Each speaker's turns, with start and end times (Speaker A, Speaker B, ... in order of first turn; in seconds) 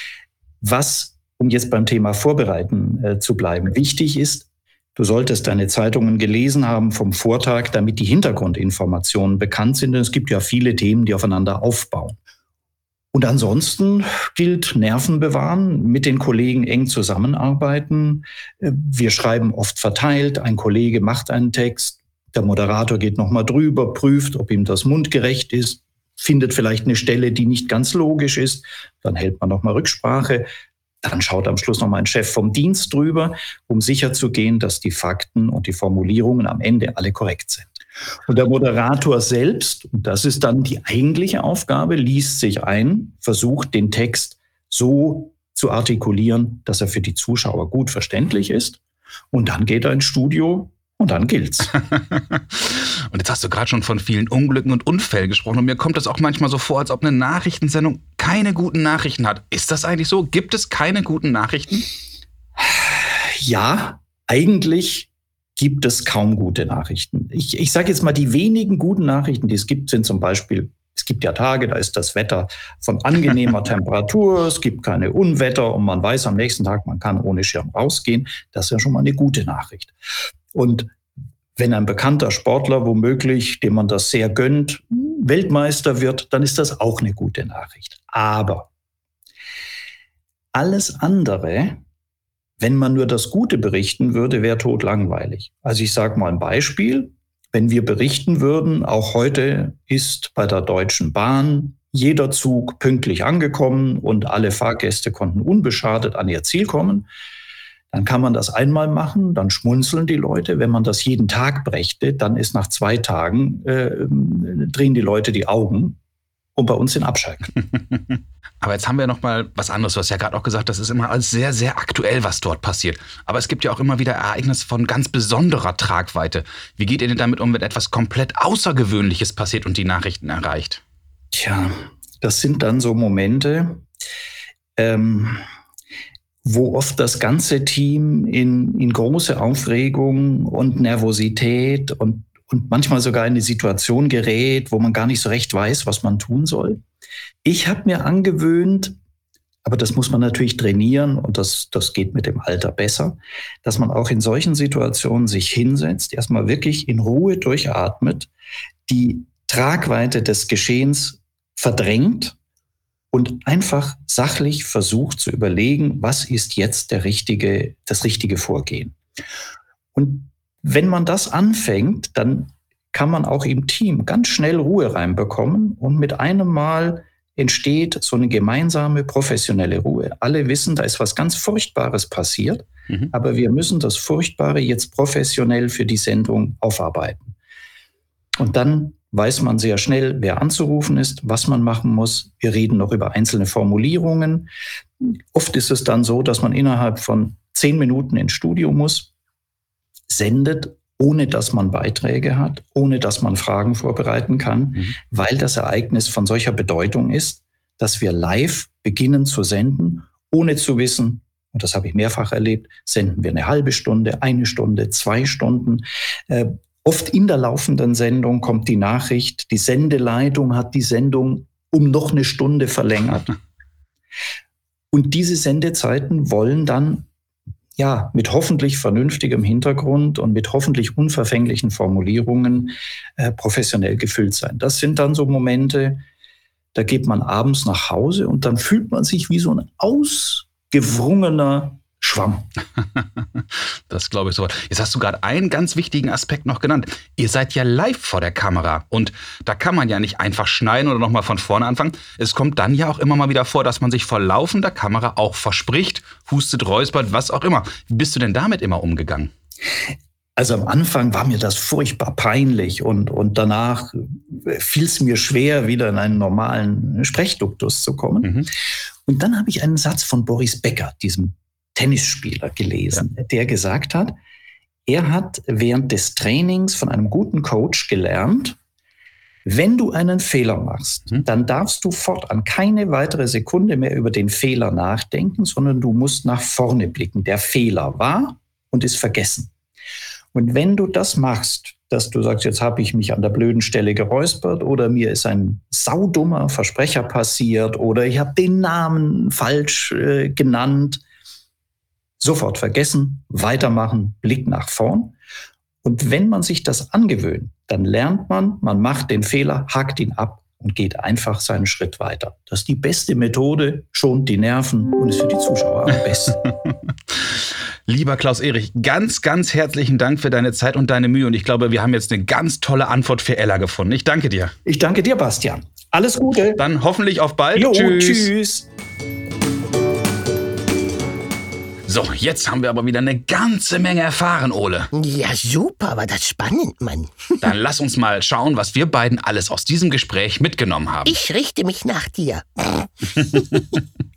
Speaker A: 0.6-12.2, 13.1-30.5, 31.0-37.7, 38.3-48.8, 49.3-51.7, 62.6-79.9, 80.5-80.9, 81.6-88.7, 90.5-91.8, 92.6-107.1, 107.9-116.0, 116.6-117.5, 131.3-133.8, 134.8-135.4, 136.4-146.8, 147.4-149.0, 149.6-158.3, 158.9-162.4, 163.1-169.0, 169.9-187.3, 188.4-199.1, 200.1-223.3, 224.9-227.1, 227.8-236.0, 236.7-242.5, 260.4-268.4, 269.1-274.1, 274.9-278.6, 279.5-289.5, 290.3-301.0, 302.2-305.2, 305.8-316.4, 324.7-326.7, 327.5-328.7
Speaker B: 51.9-61.9, 118.6-130.8, 243.9-259.3, 268.2-268.5, 317.9-324.5, 326.6-328.3, 331.9-334.9, 337.4-341.2, 343.2-343.8
Speaker C: 334.9-337.5, 341.1-343.6